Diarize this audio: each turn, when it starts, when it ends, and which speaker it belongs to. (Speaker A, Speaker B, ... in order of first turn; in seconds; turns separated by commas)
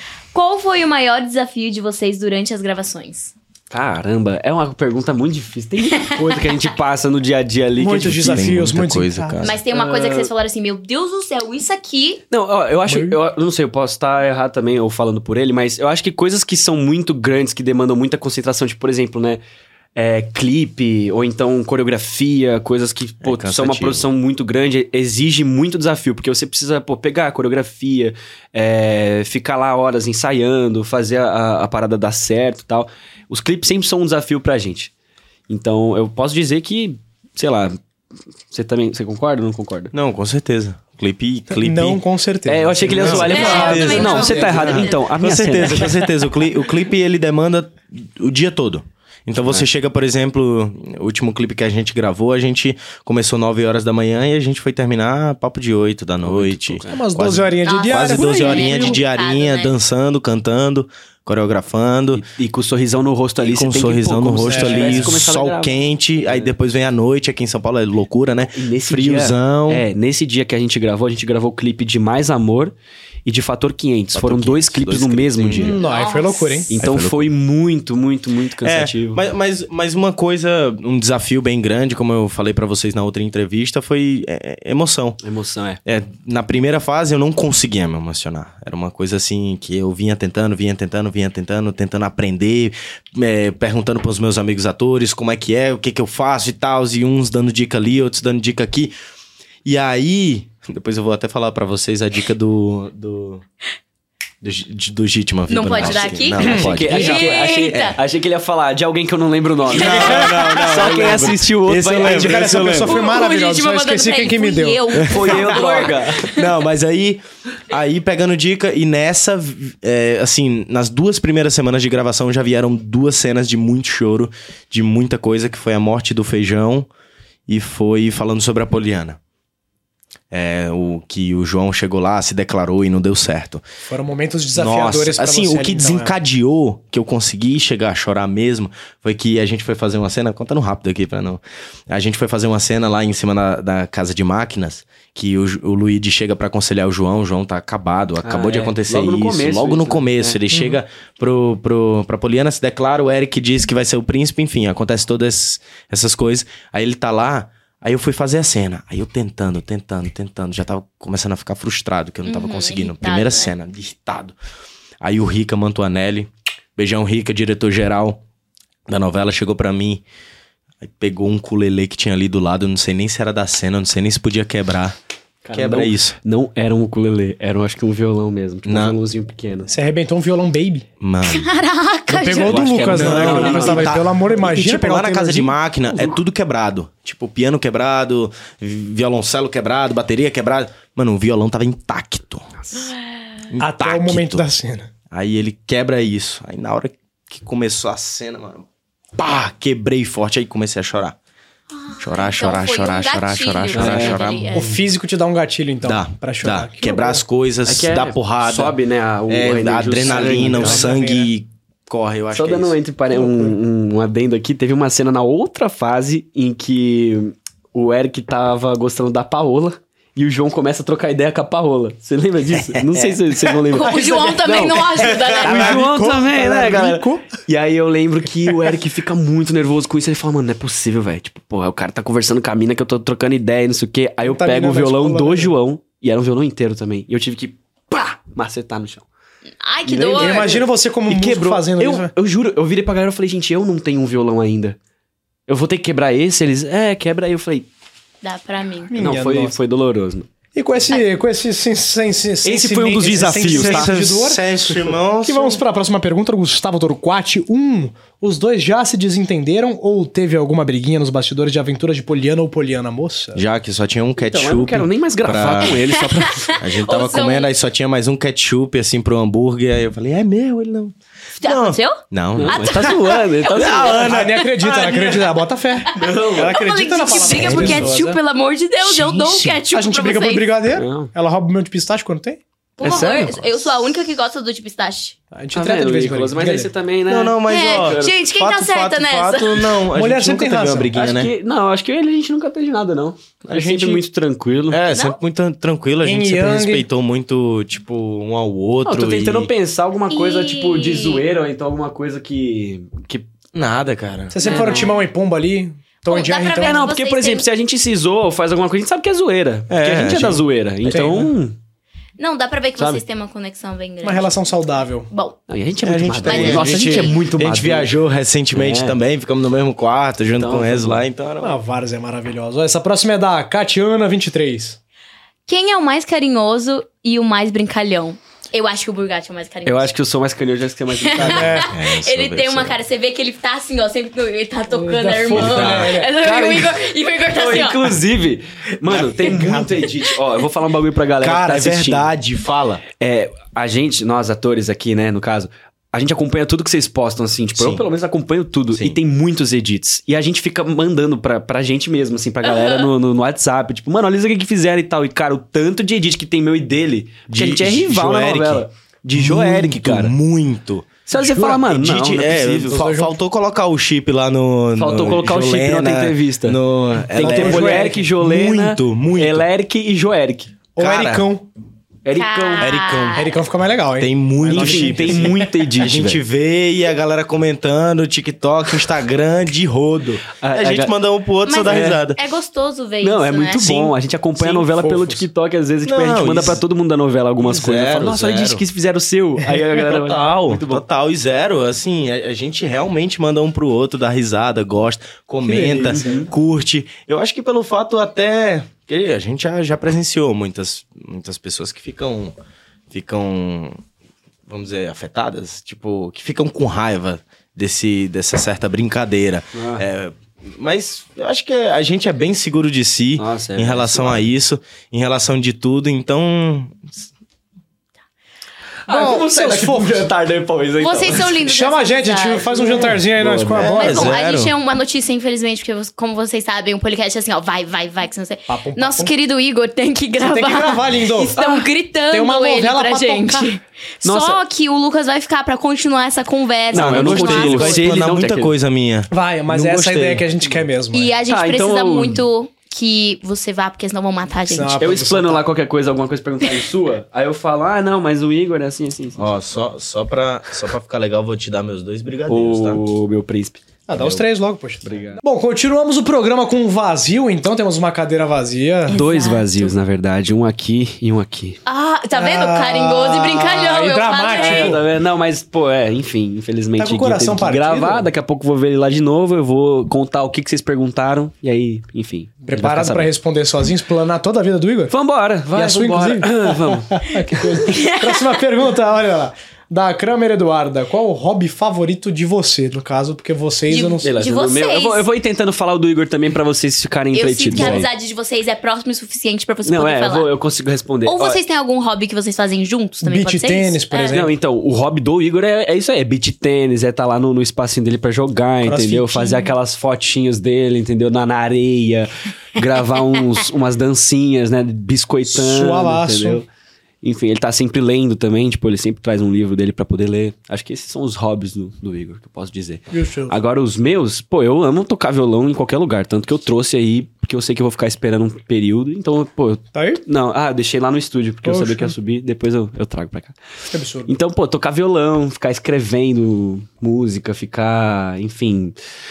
Speaker A: 0.3-3.3, Speaker B: 3.7-8.6, Speaker A: 5.9-6.6, Speaker C: 7.8-9.4, Speaker D: 8.0-9.6, Speaker A: 9.4-12.2, Speaker B: 9.7-10.3, Speaker B: 12.3-19.4, Speaker C: 12.9-13.2, Speaker B: 19.9-34.9, Speaker D: 23.2-24.1, Speaker B: 35.5-37.8, Speaker B: 38.5-39.9, Speaker D: 39.9-42.0, Speaker C: 41.5-44.1, Speaker B: 42.5-46.0, Speaker D: 42.9-62.2, Speaker A: 43.2-45.0, Speaker B: 49.4-49.7, Speaker B: 56.2-57.0, Speaker C: 56.9-59.0, Speaker A: 57.6-59.8, Speaker B: 62.1-66.5, Speaker D: 63.4-69.9, Speaker C: 64.4-65.2, Speaker B: 68.5-72.7, Speaker B: 73.3-75.8, Speaker D: 74.1-75.8, Speaker C: 75.6-76.7, Speaker A: 75.8-76.8, Speaker B: 76.7-79.2, Speaker D: 76.8-77.3, Speaker D: 78.6-85.2, Speaker B: 85.2-85.8, Speaker D: 85.8-98.9, Speaker D: 99.7-103.5, Speaker D: 104.4-108.0, Speaker A: 105.5-108.0, Speaker B: 105.9-113.0, Speaker D: 109.7-113.0, Speaker C: 109.7-111.3, Speaker A: 110.2-110.8, Speaker C: 112.0-115.9, Speaker A: 112.8-116.5, Speaker D: 115.0-115.4, Speaker B: 115.0-116.2, Speaker D: 116.2-126.9, Speaker D: 127.5-129.2, Speaker D: 130.3-133.6, Speaker C: 133.8-136.2, Speaker D: 134.6-164.3, Speaker B: 148.2-150.4, Speaker A: 162.3-163.5, Speaker D: 165.0-168.2, Speaker D: 168.9-170.0, Speaker D: 170.8-175.0, Speaker B: 175.4-179.7, Speaker D: 175.5-176.2, Speaker D: 178.7-179.0, Speaker C: 179.7-180.9, Speaker D: 181.0-181.5, Speaker A: 181.3-183.0, Speaker C: 182.1-185.6, Speaker B: 182.3-184.1, Speaker D: 182.9-192.5, Speaker B: 185.9-186.2, Speaker A: 192.7-193.2, Speaker D: 193.5-194.4, Speaker C: 193.6-194.9, Speaker D: 195.1-198.6, Speaker D: 199.2-201.2, Speaker A: 201.8-204.7, Speaker D: 202.0-204.7, Speaker B: 203.7-204.2, Speaker C: 204.5-207.2, Speaker D: 205.8-208.8, Speaker B: 207.7-210.9, Speaker D: 209.3-213.5, Speaker C: 210.0-211.3, Speaker B: 212.3-224.9, Speaker D: 222.8-223.2, Speaker A: 223.7-225.8, Speaker C: 223.7-227.3, Speaker D: 225.0-225.6, Speaker B: 225.4-239.1, Speaker C: 234.2-235.5, Speaker A: 239.6-240.6, Speaker B: 239.9-244.8, Speaker C: 240.1-242.1, Speaker B: 245.5-247.7, Speaker A: 248.2-248.9, Speaker C: 248.9-249.6, Speaker B: 248.9-250.3, Speaker C: 250.6-263.4, Speaker B: 252.4-253.9, Speaker D: 253.3-255.6, Speaker D: 263.4-265.9, Speaker B: 264.2-266.5, Speaker A: 266.1-267.5, Speaker D: 266.6-272.9, Speaker A: 271.4-273.3, Speaker B: 272.4-274.2, Speaker D: 273.5-275.3, Speaker C: 274.0-278.2, Speaker B: 275.9-276.6, Speaker A: 276.5-280.6, Speaker B: 277.1-277.9, Speaker D: 277.4-277.8, Speaker C: 278.8-282.4, Speaker B: 280.8-281.1, Speaker A: 282.8-285.1, Speaker B: 282.8-283.5, Speaker C: 285.3-286.7, Speaker B: 285.5-288.2, Speaker D: 287.1-291.3, Speaker A: 287.5-289.8, Speaker C: 289.9-290.9, Speaker B: 290.9-294.8, Speaker D: 293.4-294.0, Speaker D: 294.7-299.5, Speaker A: 294.9-295.2, Speaker C: 296.0-296.9, Speaker B: 298.9-303.3, Speaker A: 300.1-301.2, Speaker D: 303.5-304.6, Speaker C: 304.3-306.9, Speaker B: 304.4-304.8, Speaker A: 304.4-305.0, Speaker A: 306.1-307.5, Speaker B: 306.6-311.6, Speaker D: 309.7-310.4, Speaker C: 310.9-311.3, Speaker A: 312.2-314.4, Speaker C: 314.0-315.1, Speaker A: 315.1-315.4, Speaker B: 315.5-317.9, Speaker D: 315.8-321.6, Speaker A: 316.2-317.2, Speaker B: 318.5-319.0, Speaker B: 320.4-321.0, Speaker C: 321.4-324.8, Speaker A: 325.5-329.9, Speaker B: 329.7-331.7, Speaker A: 331.0-338.0, Speaker C: 331.2-331.7, Speaker D: 331.3-332.8, Speaker C: 334.7-336.1, Speaker D: 335.3-336.0, Speaker B: 335.6-336.7, Speaker B: 337.3-342.1, Speaker C: 338.9-339.9, Speaker D: 341.2-342.8, Speaker B: 343.0-360.1, Speaker D: 347.6-347.8, Speaker D: 348.7-349.0, Speaker A: 352.4-352.9, Speaker D: 357.3-369.5, Speaker B: 361.1-362.8, Speaker C: 362.7-363.1, Speaker B: 364.8-366.6, Speaker B: 367.1-370.5, Speaker C: 367.2-368.1, Speaker C: 370.8-371.5, Speaker D: 370.8-371.3, Speaker B: 372.1-372.7, Speaker A: 372.1-373.3, Speaker D: 372.6-373.3, Speaker C: 373.1-375.5, Speaker D: 374.0-382.2, Speaker B: 374.5-376.2, Speaker B: 380.4-380.9, Speaker A: 381.5-383.9, Speaker B: 381.6-382.0, Speaker B: 383.0-390.8, Speaker C: 384.7-385.2, Speaker D: 385.9-386.6, Speaker D: 387.4-388.6, Speaker D: 389.8-402.4, Speaker C: 395.4-396.3, Speaker B: 395.8-396.3, Speaker D: 402.9-403.8, Speaker D: 404.5-416.9, Speaker B: 409.6-409.8, Speaker B: 413.2-414.3, Speaker B: 418.9-421.4, Speaker C: 418.9-420.1, Speaker A: 418.9-419.2, Speaker A: 420.8-423.0, Speaker C: 421.4-424.2, Speaker B: 422.9-423.8, Speaker D: 423.5-424.5, Speaker A: 423.7-437.9, Speaker C: 428.5-429.1, Speaker C: 430.2-431.4, Speaker B: 431.4-431.7, Speaker C: 432.1-433.5, Speaker B: 434.0-434.4, Speaker B: 436.7-438.5, Speaker D: 436.7-440.4, Speaker C: 439.1-441.1, Speaker A: 440.9-444.8, Speaker B: 441.3-442.2, Speaker C: 444.5-445.5, Speaker B: 444.8-449.3, Speaker D: 449.2-452.8, Speaker B: 452.3-453.6, Speaker C: 453.9-459.0, Speaker B: 454.8-455.2, Speaker A: 458.9-459.7, Speaker B: 458.9-461.6, Speaker A: 461.7-464.8, Speaker C: 462.1-464.9, Speaker B: 464.3-473.1, Speaker C: 466.8-468.1, Speaker C: 472.4-474.9, Speaker B: 474.9-477.1, Speaker C: 475.5-484.1, Speaker A: 477.7-478.2, Speaker A: 483.7-485.1, Speaker B: 484.0-487.9, Speaker A: 487.1-490.3, Speaker C: 487.5-487.9, Speaker B: 489.6-491.4, Speaker A: 491.1-494.2, Speaker C: 493.0-494.3, Speaker B: 494.1-506.5, Speaker C: 498.6-499.5, Speaker C: 505.3-506.4, Speaker B: 507.0-523.4, Speaker C: 512.9-513.4, Speaker C: 519.8-520.0, Speaker C: 521.4-521.9, Speaker C: 523.7-524.1, Speaker B: 524.1-528.8